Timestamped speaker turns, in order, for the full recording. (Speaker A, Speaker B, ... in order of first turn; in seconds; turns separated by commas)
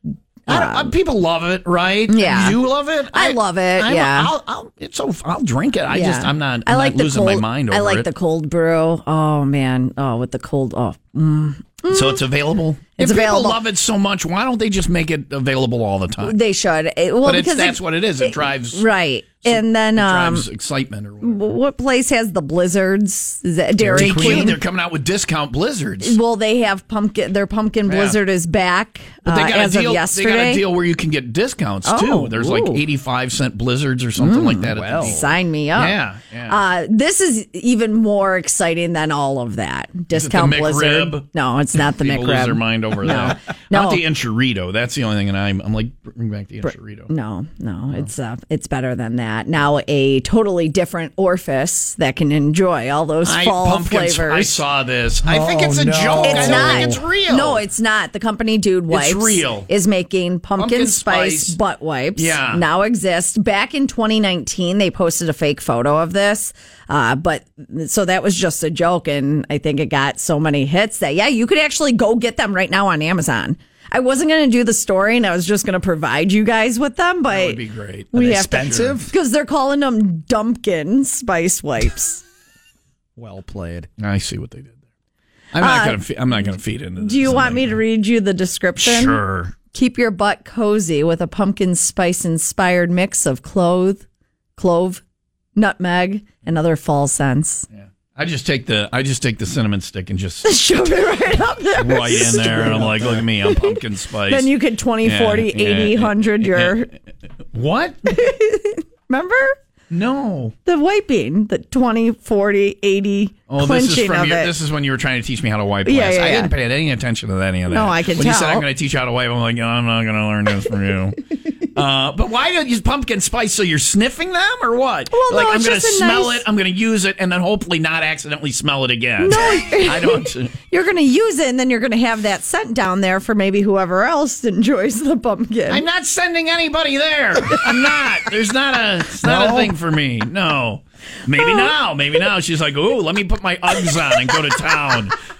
Speaker A: 0.5-0.9, Speaker B: 0.5-8.1, Speaker A: 2.1-4.3, Speaker A: 5.9-12.3, Speaker B: 11.9-16.4, Speaker A: 13.0-13.6, Speaker A: 16.2-20.5, Speaker B: 17.2-18.9, Speaker B: 19.4-21.6, Speaker A: 21.2-24.6, Speaker C: 23.8-24.5, Speaker B: 23.9-26.2, Speaker A: 26.0-30.6, Speaker B: 27.9-28.2, Speaker B: 29.2-36.6, Speaker A: 31.8-32.8, Speaker A: 34.2-44.0, Speaker C: 34.7-35.2, Speaker B: 40.1-47.1, Speaker A: 47.1-54.6, Speaker B: 53.2-57.6, Speaker C: 55.2-57.0, Speaker A: 56.2-77.6, Speaker B: 58.9-59.7, Speaker B: 60.6-61.6, Speaker B: 62.2-62.6, Speaker B: 77.3-79.1, Speaker A: 78.1-82.2, Speaker C: 83.2-83.9, Speaker B: 84.0-84.8, Speaker B: 85.5-87.8, Speaker A: 85.6-86.0, Speaker A: 87.0-89.2, Speaker B: 88.8-89.6, Speaker A: 89.7-94.0, Speaker A: 94.6-95.0, Speaker A: 95.6-97.7, Speaker B: 97.8-100.5, Speaker A: 100.4-106.9, Speaker B: 101.8-104.5, Speaker B: 105.0-106.9, Speaker B: 107.5-108.2, Speaker A: 108.0-109.5, Speaker B: 109.9-110.5, Speaker A: 110.7-114.5, Speaker B: 113.5-130.5, Speaker A: 115.8-116.5, Speaker A: 117.7-118.7, Speaker A: 125.1-126.5, Speaker A: 129.2-135.9, Speaker B: 135.7-145.2, Speaker C: 139.2-139.7, Speaker A: 141.4-141.7